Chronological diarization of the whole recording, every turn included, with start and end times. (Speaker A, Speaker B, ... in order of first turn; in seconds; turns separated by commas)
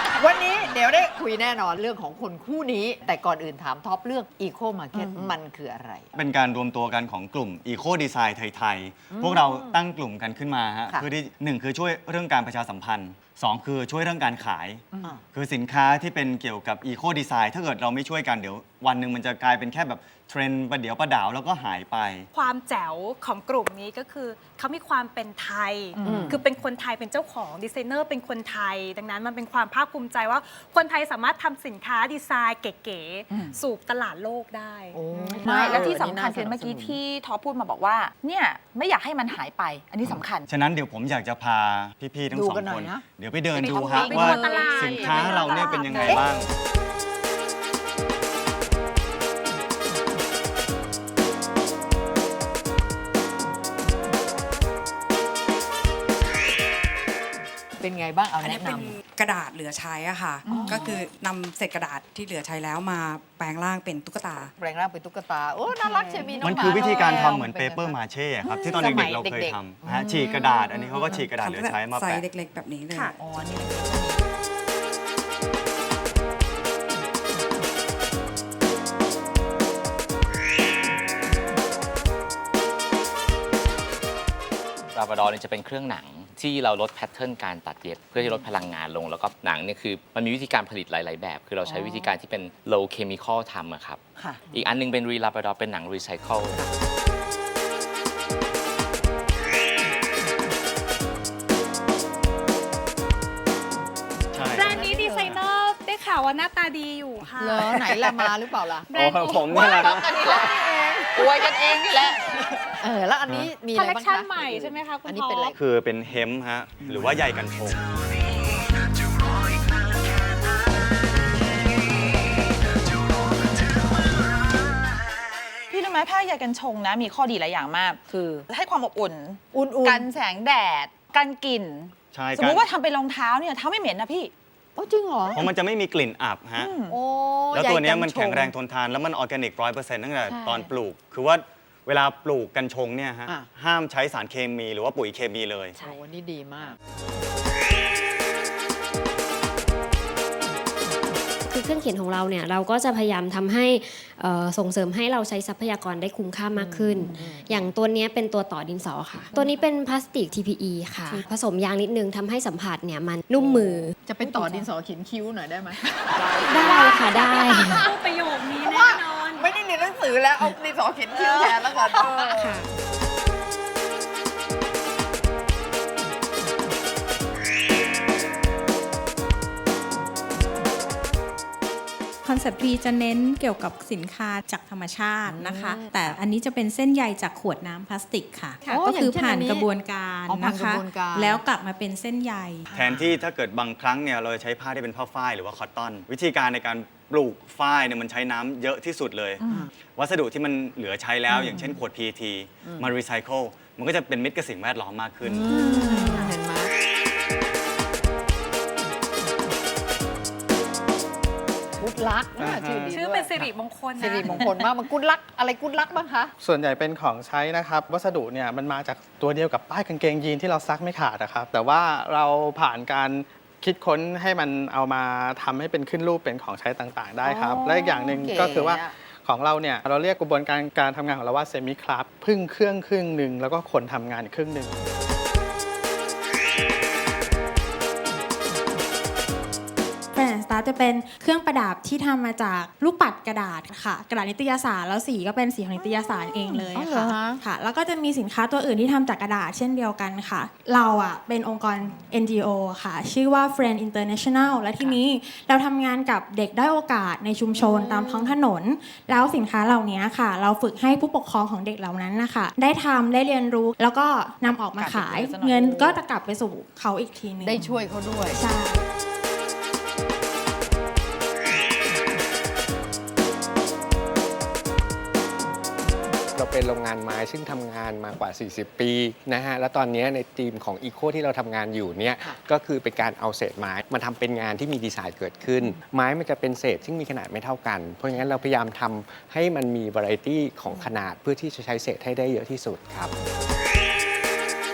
Speaker A: 0.1-6.1, Speaker B: 4.9-5.3, Speaker C: 6.1-14.8, Speaker A: 9.1-9.8, Speaker A: 14.9-15.2, Speaker C: 15.3-22.3, Speaker D: 22.3-35.0, Speaker B: 26.0-26.4, Speaker A: 26.0-26.4, Speaker B: 33.3-33.5, Speaker A: 34.9-37.0, Speaker B: 35.4-40.5, Speaker C: 40.5-46.5, Speaker A: 42.3-43.0, Speaker D: 43.5-46.2, Speaker B: 43.6-46.1, Speaker A: 45.6-46.2, Speaker A: 57.8-59.0, Speaker E: 58.4-64.5, Speaker A: 60.5-61.0, Speaker A: 64.6-70.7, Speaker B: 66.0-66.9, Speaker C: 66.4-72.2, Speaker E: 70.0-70.3, Speaker E: 71.0-73.2, Speaker B: 73.2-74.2, Speaker F: 84.9-94.0, Speaker A: 91.6-92.1, Speaker F: 94.5-96.6, Speaker C: 104.3-105.4, Speaker D: 104.5-107.8, Speaker A: 104.6-105.2, Speaker A: 107.2-108.9, Speaker D: 108.9-109.6, Speaker C: 108.9-110.2, Speaker A: 109.4-111.5, Speaker B: 109.5-112.3, Speaker A: 112.8-115.5, Speaker D: 113.7-115.5, Speaker C: 115.5-117.8, Speaker B: 125.7-134.3, Speaker A: 128.1-128.4, Speaker A: 129.5-130.1, Speaker C: 132.1-132.7, Speaker A: 134.8-135.4, Speaker C: 135.3-136.8, Speaker B: 136.6-137.0, Speaker A: 136.8-138.5, Speaker C: 137.5-145.8, Speaker B: 140.2-140.7, Speaker A: 145.8-146.8, Speaker G: 151.5-163.9, Speaker A: 156.5-157.7, Speaker A: 163.3-167.9, Speaker B: 166.1-166.8, Speaker G: 166.4-167.9, Speaker D: 166.5-169.5, Speaker A: 168.5-172.6, Speaker B: 171.1-172.0, Speaker G: 172.3-172.6, Speaker H: 182.2-192.6, Speaker A: 185.3-186.2, Speaker A: 188.6-189.7, Speaker A: 190.3-191.4, Speaker C: 192.7-205.5, Speaker A: 192.7-193.2, Speaker B: 199.4-199.7, Speaker A: 201.3-201.8, Speaker A: 205.2-206.7, Speaker B: 205.5-206.3, Speaker A: 211.8-216.3, Speaker I: 212.4-212.9, Speaker C: 212.5-212.9, Speaker D: 212.9-214.3, Speaker I: 216.4-234.8, Speaker A: 227.2-228.9, Speaker H: 240.1-267.6, Speaker A: 246.5-247.4, Speaker B: 264.4-266.0, Speaker A: 267.4-268.4, Speaker H: 268.3-268.8, Speaker J: 276.3-293.1